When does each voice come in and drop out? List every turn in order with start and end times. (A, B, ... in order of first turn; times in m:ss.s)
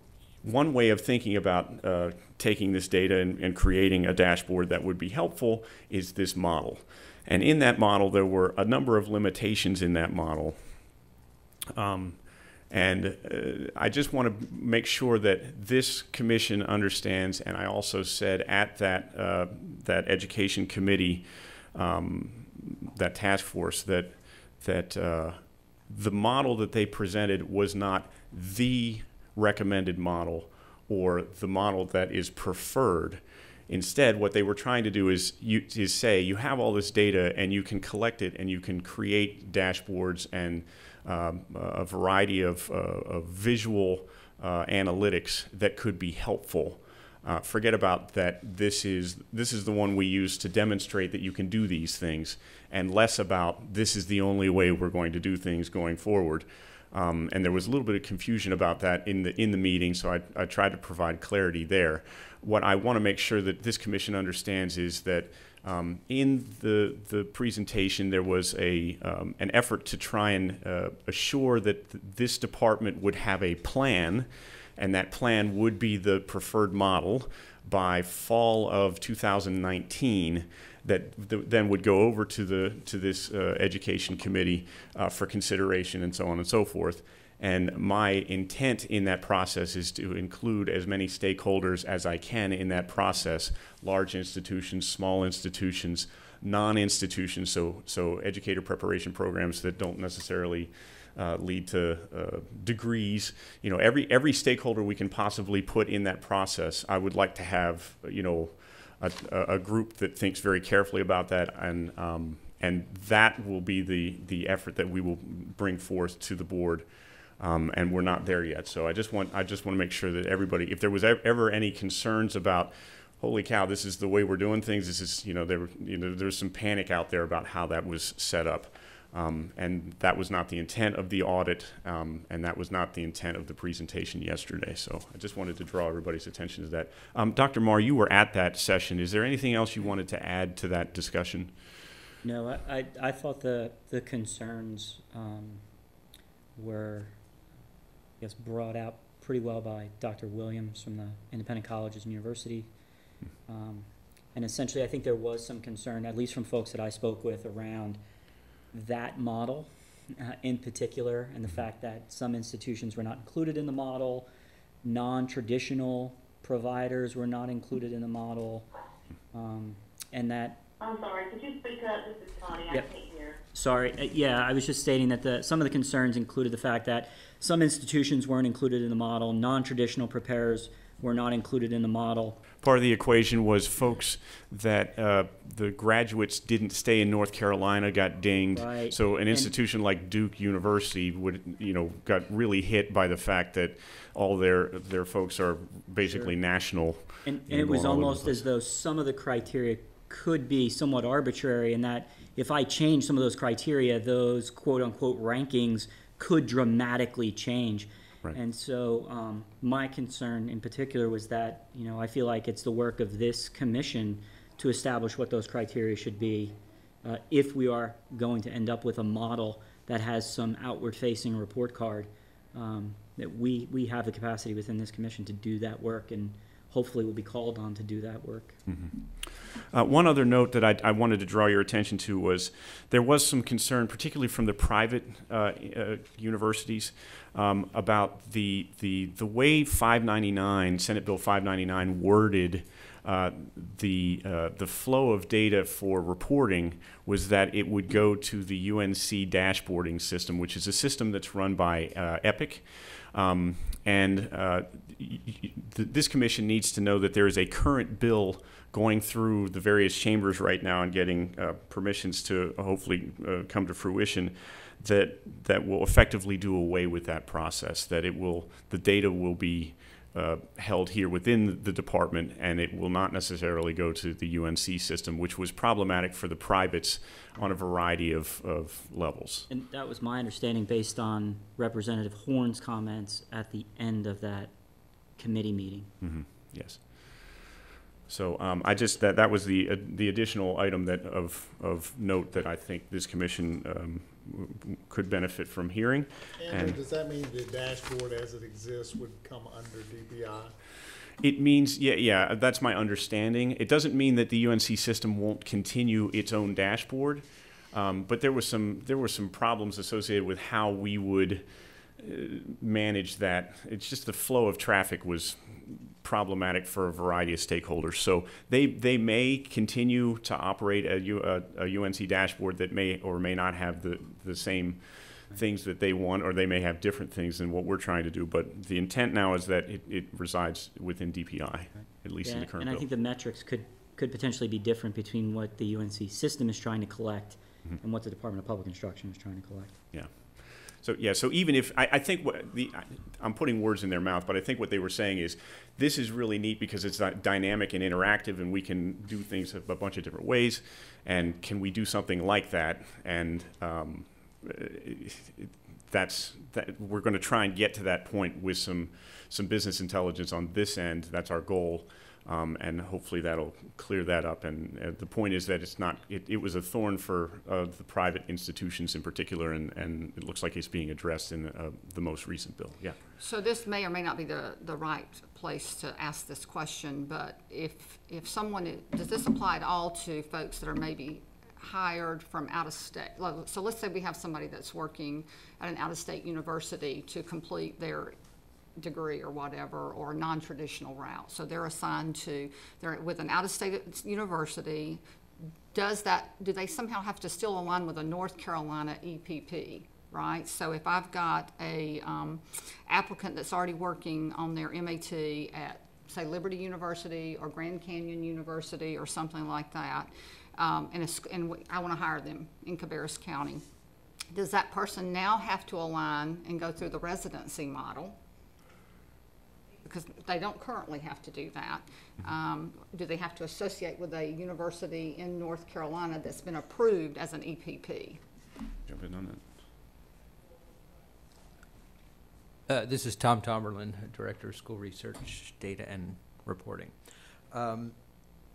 0:00.4-0:10.6 A
0:11.7-0:12.2 A
0:12.7-1:56.9 A
1:57.4-2:21.5 A
2:22.2-2:25.6 B
2:26.6-2:27.2 B
2:28.2-2:32.7 B
2:33.5-2:38.0 B
2:38.7-2:44.3 B
2:44.8-2:48.7 B
2:49.3-2:50.6 B
2:50.8-2:53.4 C
2:53.5-3:02.4 B
3:02.6-3:18.4 A
3:08.5-3:09.5 B
3:16.1-3:16.3 B
3:17.2-3:48.6 B
3:48.7-3:49.0 A
3:49.7-4:39.5 A
4:39.5-4:44.5 B
4:45.2-4:45.9 B
4:46.0-4:47.1 A
4:48.1-4:56.8 A
4:56.4-5:00.5 D
5:01.2-5:11.4 A
5:12.0-5:32.9 A
5:32.2-5:39.8 B
5:39.9-5:40.2 A
5:40.8-6:13.0 A
6:13.2-6:28.1 E
6:28.8-6:35.0 E
6:35.7-6:53.6 E
6:54.3-6:58.2 E
6:59.8-7:08.2 E
7:08.9-7:09.4 A
7:12.7-7:17.0 F
7:17.5-7:18.0 F